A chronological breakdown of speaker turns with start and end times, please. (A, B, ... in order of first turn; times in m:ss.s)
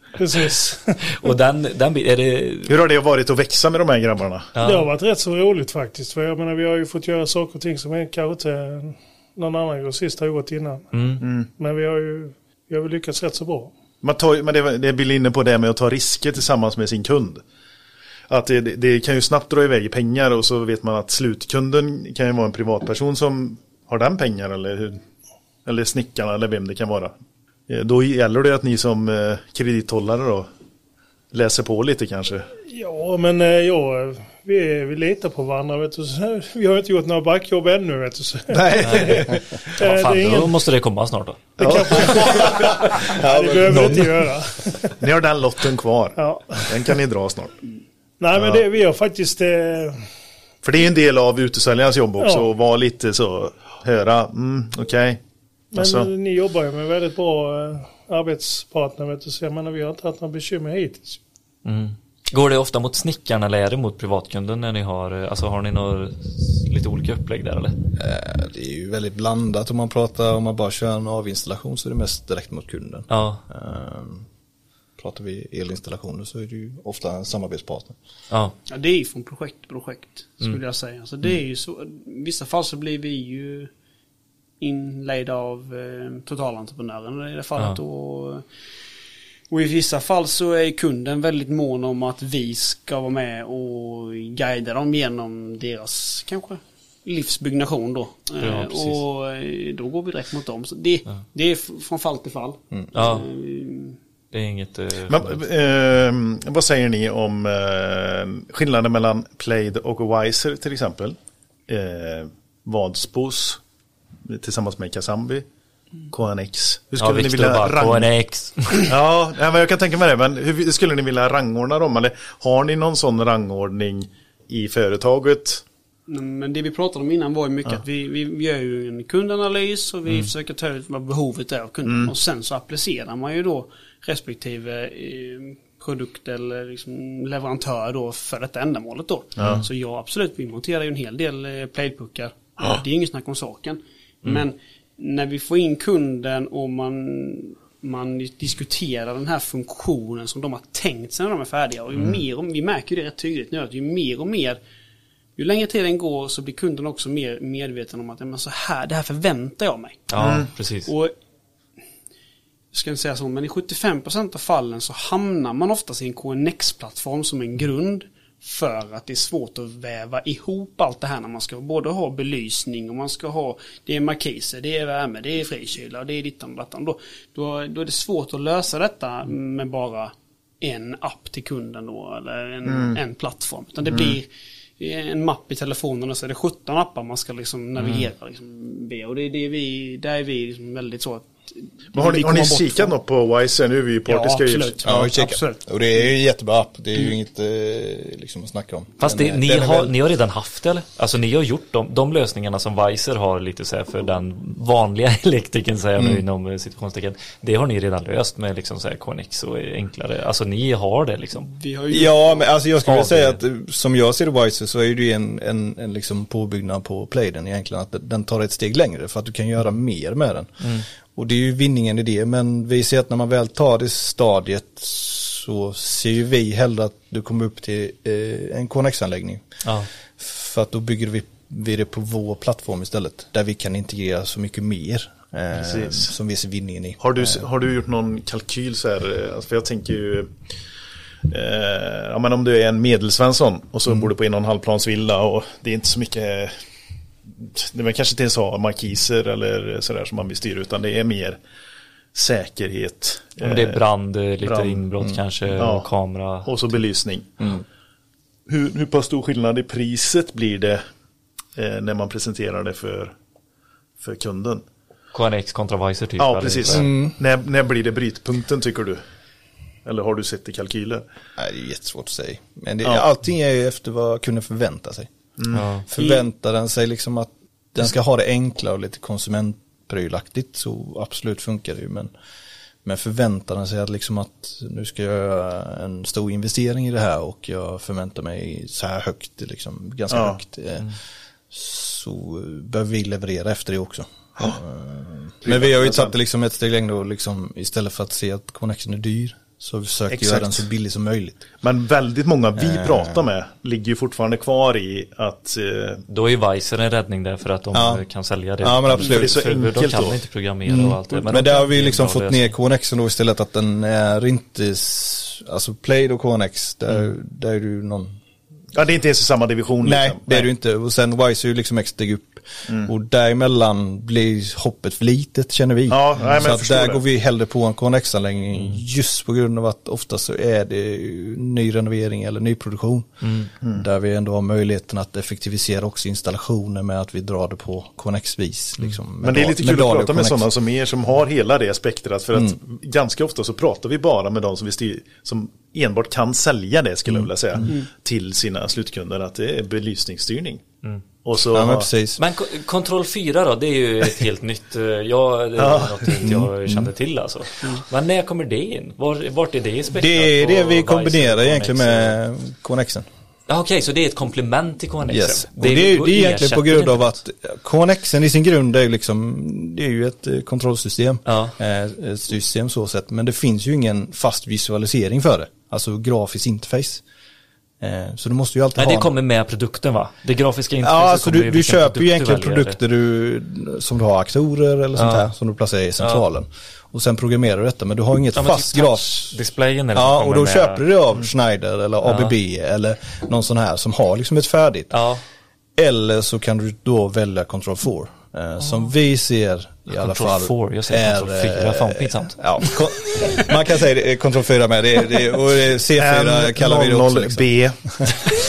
0:00.2-0:01.0 A
0:01.0-0:02.7 B
0:02.7-0:04.5 C
0:04.6-0:04.9 B
0:04.6-0:13.7 A
0:10.9-0:11.2 B
0:11.2-0:11.5 C
0:14.0-0:17.4 C
0:18.3-0:25.0 C
0:25.6-0:27.1 C
0:27.7-0:30.5 C
0:31.3-0:32.5 C
0:32.7-0:40.6 A
0:38.5-0:39.4 C
0:38.8-0:39.2 B
0:39.8-0:41.5 B
0:41.6-0:44.9 A
0:41.6-0:43.8 C
0:43.2-0:44.0 D
0:45.0-0:47.5 C
0:46.2-0:46.8 A
0:48.2-0:50.0 A
0:50.6-0:55.2 C
0:52.2-0:52.5 A
0:55.7-0:56.1 C
0:55.7-1:01.2 A
1:01.6-1:07.8 B
1:08.0-1:14.3 D
1:13.1-1:13.4 B
1:15.0-1:18.0 D
1:18.7-1:23.7 E
1:24.6-1:28.4 E
1:29.5-1:44.0 E
1:38.4-1:39.0 B
1:42.9-1:43.3 B
1:44.3-1:45.4 B
1:45.1-1:51.2 C
1:51.7-1:53.6 C
1:54.2-1:55.4 C
1:56.1-1:58.1 C
1:57.0-1:58.9 B
1:58.8-2:05.6 C
2:06.1-2:34.6 E
2:11.8-2:12.1 C
2:19.4-2:19.6 C
2:35.4-2:40.1 E
2:40.1-2:40.9 B
2:40.2-2:40.5 C
2:40.8-2:41.1 E
2:42.7-3:04.3 E
3:02.6-3:03.0 C
3:03.9-3:04.2 C
3:04.8-3:12.9 E
3:07.8-3:08.1 B
3:11.9-3:14.8 C
3:14.1-3:15.6 E
3:14.8-3:19.9 D
3:19.0-3:31.5 B
3:26.0-3:26.2 D
3:31.4-3:32.5 E
3:31.9-3:49.4 D
3:32.8-3:33.4 B
3:40.6-3:40.8 B
3:50.2-3:57.4 D
3:55.5-3:56.1 C
3:57.0-4:00.3 C
4:01.2-4:06.6 C
4:07.3-4:11.4 C
4:12.1-4:13.8 C
4:13.4-4:16.5 B
4:14.4-4:14.8 C
4:15.5-4:15.8 C
4:16.4-4:17.3 C
4:17.4-4:17.6 D
4:18.5-4:20.8 C
4:21.6-4:23.1 C
4:24.0-4:24.6 C
4:25.1-4:26.9 B
4:26.2-4:29.0 C
4:26.7-4:27.1 D
4:29.8-4:31.0 C
4:31.4-4:35.1 D
4:35.4-4:35.6 C
4:35.5-4:35.8 B
4:35.9-4:42.1 D
4:36.0-4:36.2 E
4:42.8-4:50.9 D
4:50.1-4:50.4 C
4:51.5-5:01.4 D
4:55.4-4:56.1 C
5:00.1-5:00.7 C
5:01.6-5:06.0 C
5:02.6-5:03.2 D
5:06.1-5:12.5 B
5:07.7-5:08.0 D
5:08.6-5:09.4 D
5:09.1-5:10.2 C
5:10.6-5:18.1 D
5:11.1-5:11.6 E
5:18.7-5:20.5 C
5:19.8-5:40.5 D
5:25.9-5:27.0 C
5:33.2-5:33.5 B
5:39.2-5:50.6 C
5:47.1-5:47.6 D
5:51.2-5:51.9 C
5:51.5-5:52.2 D
5:52.2-6:02.2 B
5:55.6-5:56.2 C
5:56.2-5:56.9 D
5:59.9-6:03.0 D
6:03.5-6:07.1 B
6:05.1-6:17.0 D
6:11.2-6:11.6 B
6:17.8-6:19.1 D
6:18.8-6:22.8 B
6:20.8-6:29.4 D
6:25.0-6:25.3 B
6:28.3-6:30.8 B
6:29.9-6:35.0 D
6:32.0-6:32.3 B
6:34.9-6:35.2 B
6:35.8-6:48.1 D
6:39.9-6:43.4 B
6:46.0-6:48.1 C